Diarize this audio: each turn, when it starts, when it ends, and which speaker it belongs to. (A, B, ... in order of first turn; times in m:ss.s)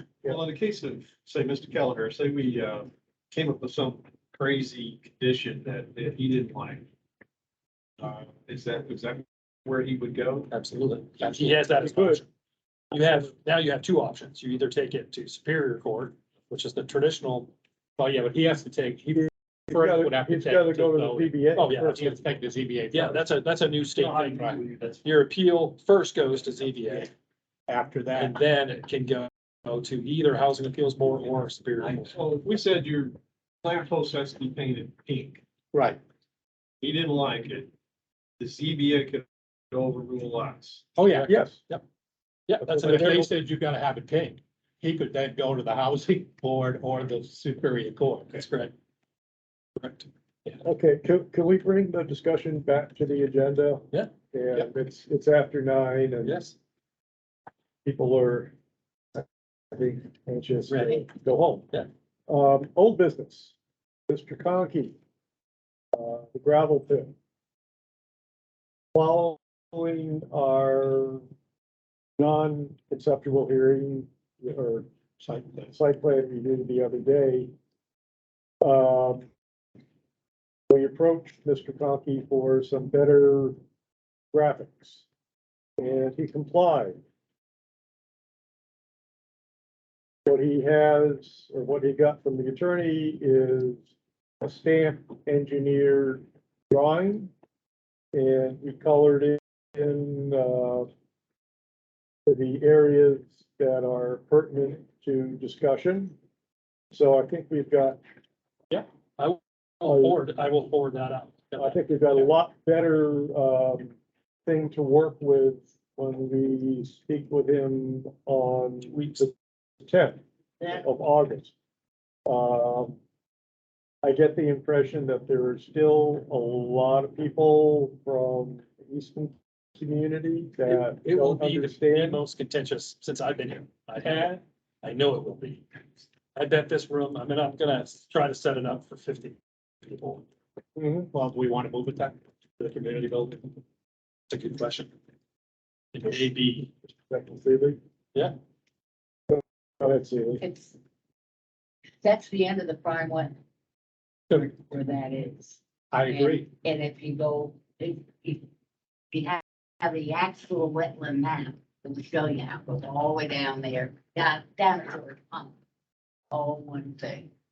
0:00.2-0:06.9 A
0:08.0-0:10.5 A
0:10.5-0:12.3 B
0:11.8-0:12.2 C
0:12.9-0:17.5 B
0:18.0-0:23.2 D
0:19.7-0:22.2 C
0:21.6-0:22.1 B
0:22.9-0:24.5 B
0:24.0-0:25.0 A
0:24.3-0:24.6 D
0:25.0-0:27.1 B
0:27.7-0:28.4 D
0:28.2-0:32.2 B
0:32.0-0:35.4 A
0:35.7-0:36.0 D
0:36.8-0:37.7 A
0:38.4-0:40.8 A
0:41.0-0:41.4 D
0:41.1-0:41.8 B
0:41.3-0:41.6 C
0:42.5-0:43.3 B
0:42.6-0:48.4 D
0:48.3-0:48.7 B
0:49.8-0:50.6 B
0:50.6-0:56.4 C
0:56.2-0:56.6 B
0:57.8-0:58.5 C
0:59.2-1:01.7 C
1:00.7-1:01.0 B
1:02.3-1:03.5 C
1:04.1-1:04.9 C
1:05.9-1:07.1 C
1:08.9-1:11.2 C
1:12.2-1:14.9 C
1:15.2-1:15.8 D
1:15.7-1:17.5 C
1:18.6-1:19.2 C
1:20.7-1:23.6 C
1:24.3-1:25.0 C
1:25.8-1:27.0 C
1:30.2-1:33.8 C
1:34.4-1:37.3 C
1:38.1-1:40.9 C
1:42.2-1:46.1 C
1:46.9-1:48.0 C
1:48.7-1:52.3 B
1:49.8-1:50.2 C
1:51.6-1:53.9 C
1:54.4-1:59.3 C
1:58.8-1:59.3 B
1:59.8-2:01.5 C
2:02.2-2:03.0 C
2:04.0-2:12.2 C
2:10.7-2:15.6 B
2:16.3-2:20.2 B
2:20.8-2:21.0 C
2:21.1-2:23.5 D
2:24.3-2:24.9 B
2:25.9-2:26.7 B
2:26.9-2:27.8 C
2:29.3-2:30.4 C
2:30.4-2:30.8 E
2:32.0-2:33.4 E
2:34.3-2:38.5 E
2:35.9-2:36.5 D
2:39.1-2:45.5 E
2:46.3-2:47.3 E